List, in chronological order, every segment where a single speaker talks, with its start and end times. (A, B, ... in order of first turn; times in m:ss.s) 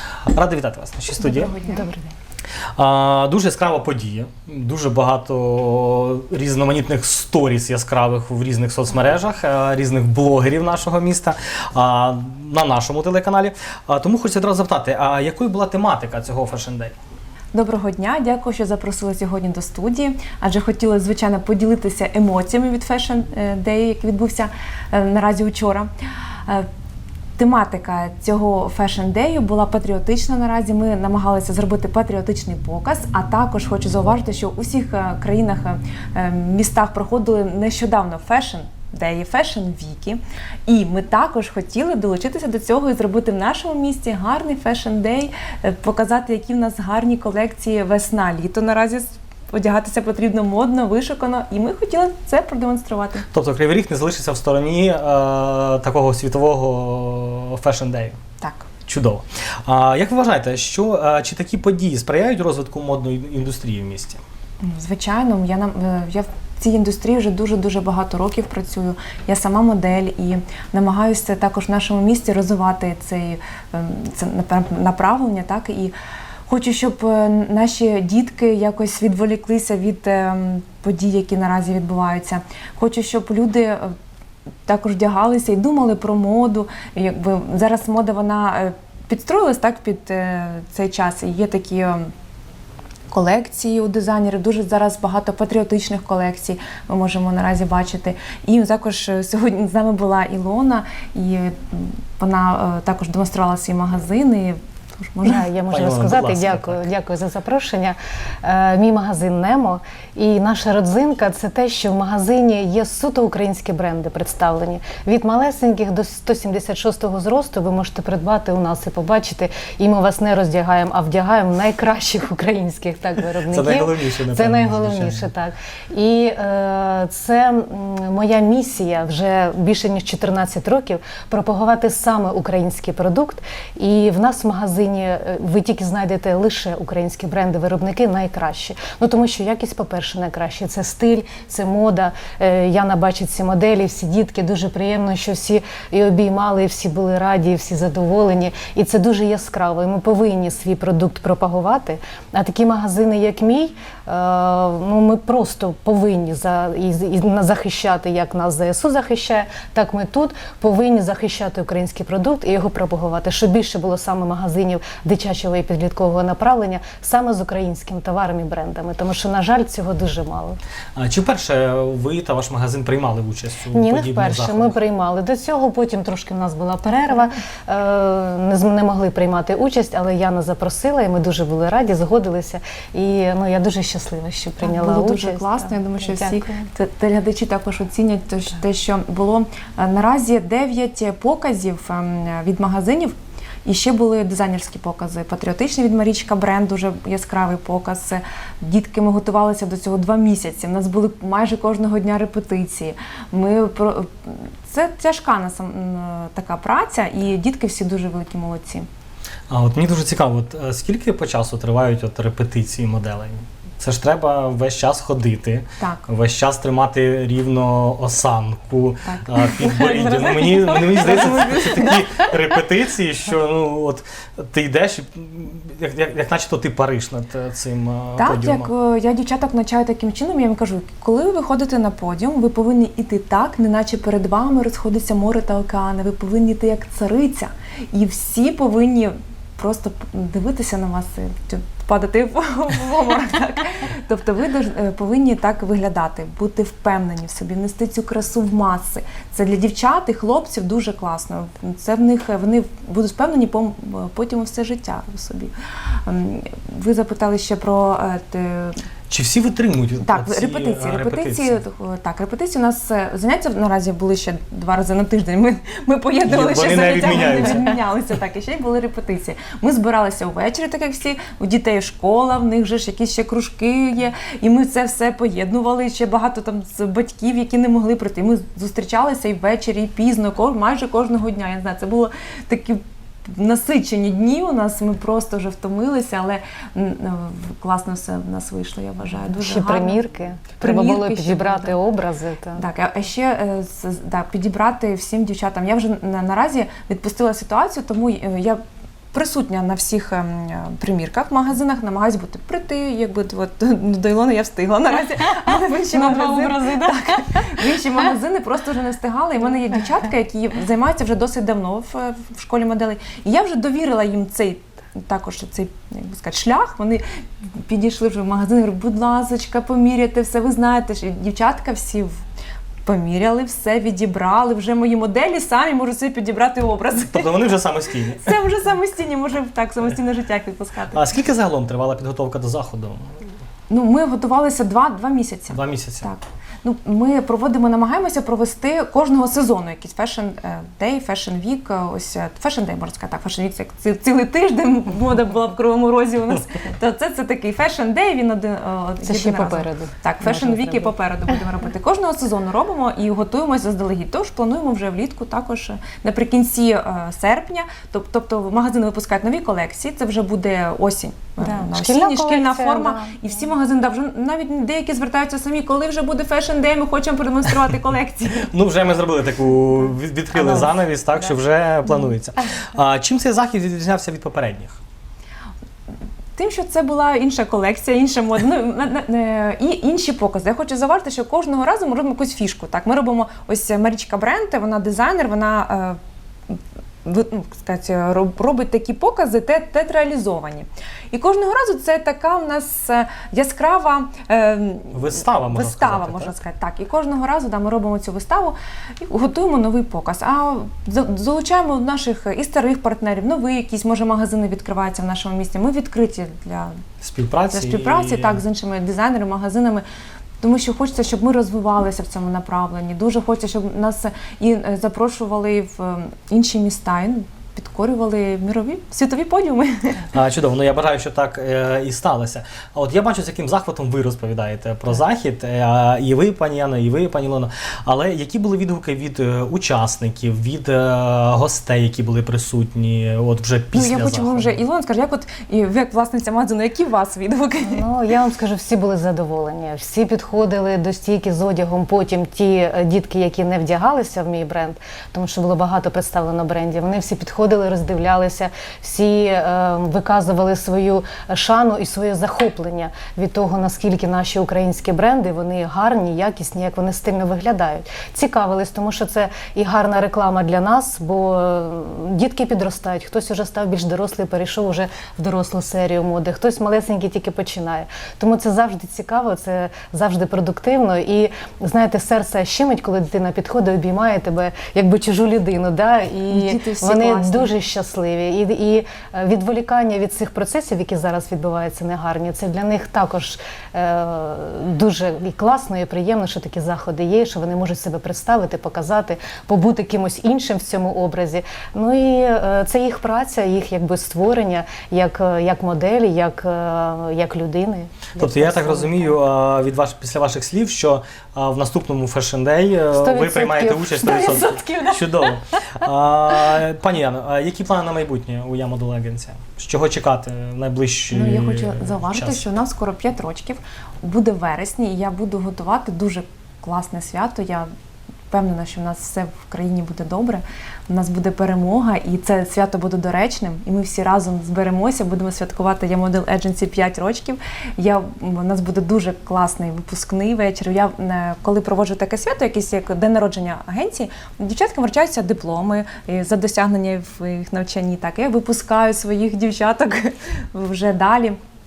0:00.3-0:01.5 A
0:01.2-0:02.0 B
0:01.7-0:02.0 C
0:02.8-0:17.0 A
0:17.5-0:25.9 B
0:27.4-0:53.2 B
0:53.3-0:58.2 A
0:58.4-0:58.7 B
0:58.8-1:04.2 A
1:04.6-1:15.9 B
1:16.5-1:23.9 B
1:24.6-1:32.1 B
1:33.1-1:45.4 B
1:45.2-2:50.6 C
1:45.7-1:46.8 A
2:03.5-2:05.3 A
2:51.0-2:54.8 A
2:53.7-3:06.6 C
3:04.6-3:13.1 B
3:13.6-3:28.9 B
3:29.5-3:48.7 A
3:35.8-3:36.0 B
3:39.0-3:42.2 B
3:48.2-4:18.8 B
4:19.1-4:21.6 A
4:20.0-4:50.0 B
4:26.2-4:27.7 A
4:49.4-4:52.6 C
4:50.6-4:51.8 B
4:52.5-4:58.6 B
4:59.1-5:22.2 B
5:05.5-5:07.8 C
5:22.8-5:27.3 B
5:27.1-5:28.3 A
5:28.1-5:31.0 B
5:30.9-5:33.2 A
5:33.7-6:08.5 B
5:35.5-5:36.1 A
5:49.0-5:51.4 C
6:01.4-6:03.3 C
6:08.5-6:14.8 A
6:16.4-6:26.0 B
6:26.5-6:46.7 B
6:34.9-6:36.4 A
6:47.0-6:48.4 A
6:47.5-6:49.8 B
6:50.4-7:00.1 B
7:00.1-7:14.6 A
7:13.7-7:17.8 B
7:17.6-8:19.2 C
7:56.3-7:57.5 B
8:18.2-8:32.5 A
8:22.9-8:25.3 C
8:31.1-8:37.7 B
8:38.3-9:01.4 B